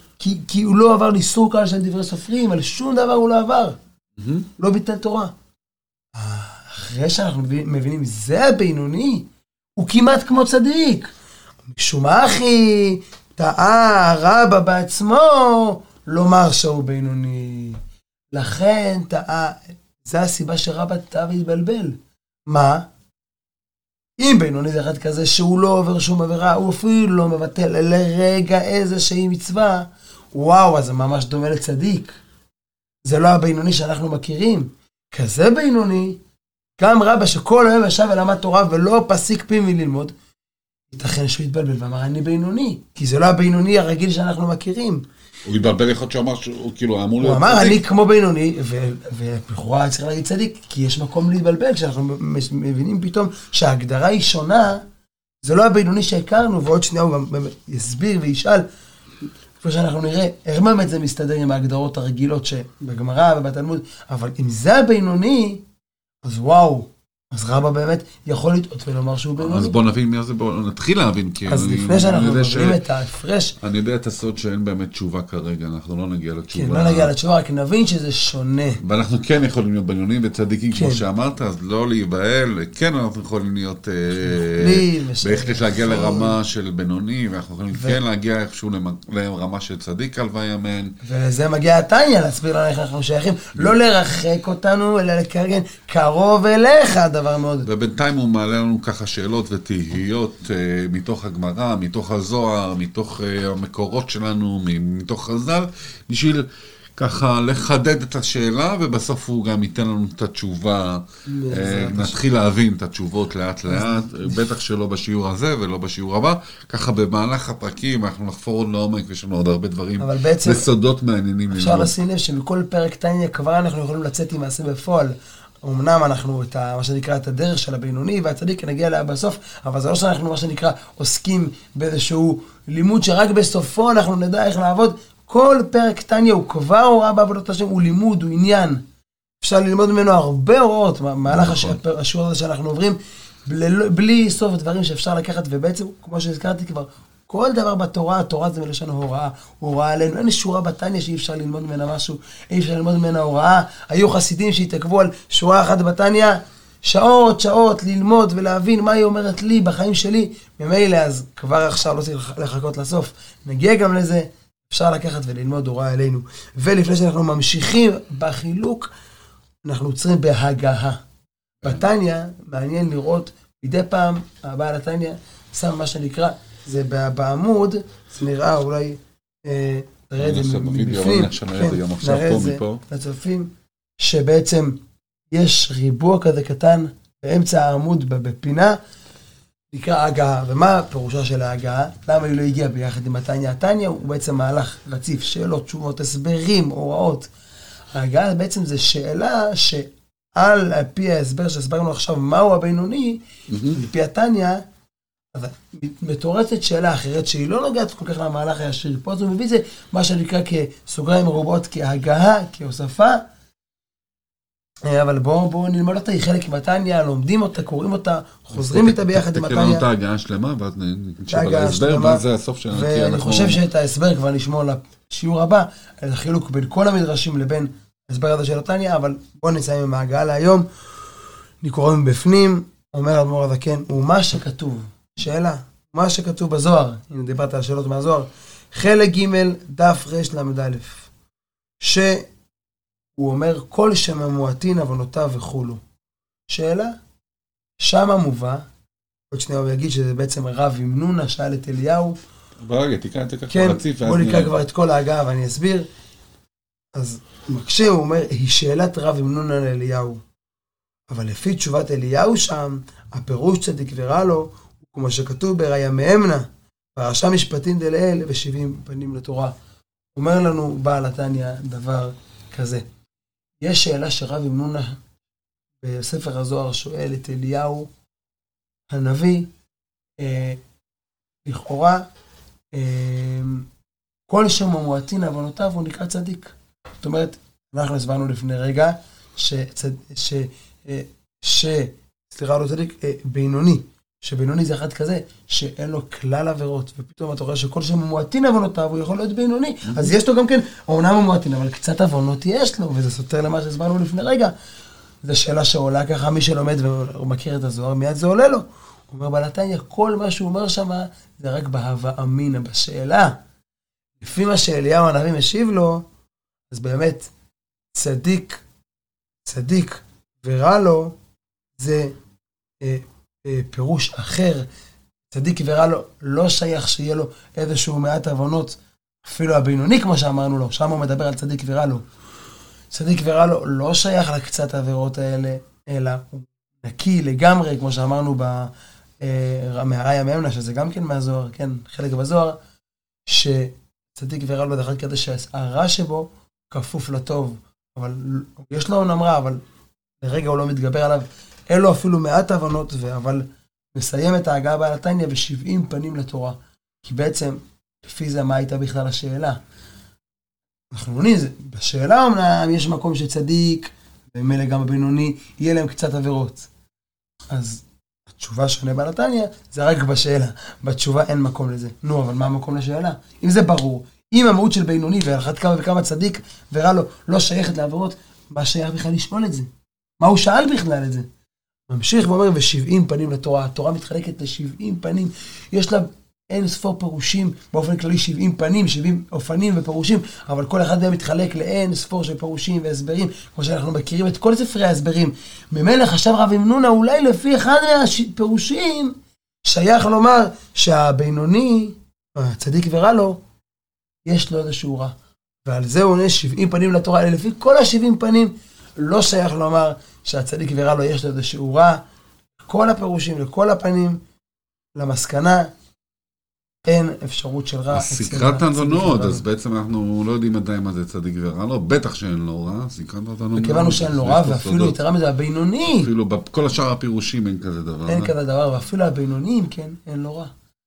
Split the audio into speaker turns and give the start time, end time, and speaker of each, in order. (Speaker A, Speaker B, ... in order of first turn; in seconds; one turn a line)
Speaker A: 0.2-3.8
Speaker B: 4.2-4.5
Speaker A: 4.6-5.3
Speaker A: 6.1-11.1
Speaker A: 11.7-17.8
Speaker A: 18.3-22.9
Speaker A: 24.2-32.1
Speaker A: 33.0-36.2
Speaker A: 36.8-40.1
Speaker A: 40.9-45.0
Speaker B: 45.5-47.8
Speaker A: 47.2-54.8
Speaker A: 55.4-58.6
Speaker A: 59.6-65.6
Speaker A: 66.2-69.8
Speaker B: 69.4-72.8
Speaker A: 71.5-73.6
Speaker B: 73.6-77.1
Speaker A: 76.5-78.8
Speaker B: 78.8-91.0
Speaker A: 80.7-81.0
Speaker A: 84.3-86.4
Speaker A: 87.7-88.0
Speaker A: 91.0-97.7
Speaker B: 97.6-121.9
Speaker A: 111.3-112.2
Speaker A: 113.7-114.4
Speaker A: 120.0-120.7
Speaker A: 121.5-138.8
Speaker A: 139.4-168.9
Speaker B: 141.3-141.8
Speaker A: 169.6-171.0
Speaker A: 171.6-184.8
Speaker B: 180.2-182.8
Speaker A: 185.3-188.8
Speaker A: 189.7-197.3
Speaker A: 197.9-203.2
Speaker B: 203.5-203.8
Speaker A: 203.7-204.6
Speaker A: 205.3-213.2
Speaker A: 214.8-219.8
Speaker B: 218.5-223.6
Speaker A: 221.3-230.7
Speaker A: 231.6-241.1
Speaker A: 241.8-242.3
Speaker A: 243.2-245.8
Speaker A: 246.5-247.0
Speaker A: 247.8-248.7
Speaker A: 249.3-252.2
Speaker B: 252.6-254.5
Speaker A: 253.5-255.9
Speaker A: 256.9-260.2
Speaker A: 261.1-269.5
Speaker A: 270.1-272.8
Speaker A: 273.6-275.0
Speaker A: 275.8-277.9
Speaker A: 278.9-279.5
Speaker A: 280.2-280.6
Speaker A: 281.4-282.1
Speaker A: 282.7-283.7
Speaker A: 284.3-304.5
Speaker B: 299.9-300.1
Speaker A: 305.2-313.4
Speaker A: 314.2-316.1
Speaker A: 316.7-317.3
Speaker A: 317.9-318.6
Speaker A: 319.4-321.2
Speaker A: 321.8-322.1
Speaker A: 322.8-324.7
Speaker A: 325.3-332.0
Speaker A: 332.9-342.6
Speaker A: 343.3-349.6
Speaker A: 350.2-359.6
Speaker A: 360.9-366.7
Speaker A: 367.5-381.3
Speaker A: 381.9-403.4
Speaker A: 404.2-412.0
Speaker A: 412.6-414.2
Speaker A: 414.9-415.7
Speaker A: 416.8-419.4
Speaker B: 417.9-425.0
Speaker A: 423.6-426.1
Speaker B: 425.9-428.3
Speaker A: 428.1-430.5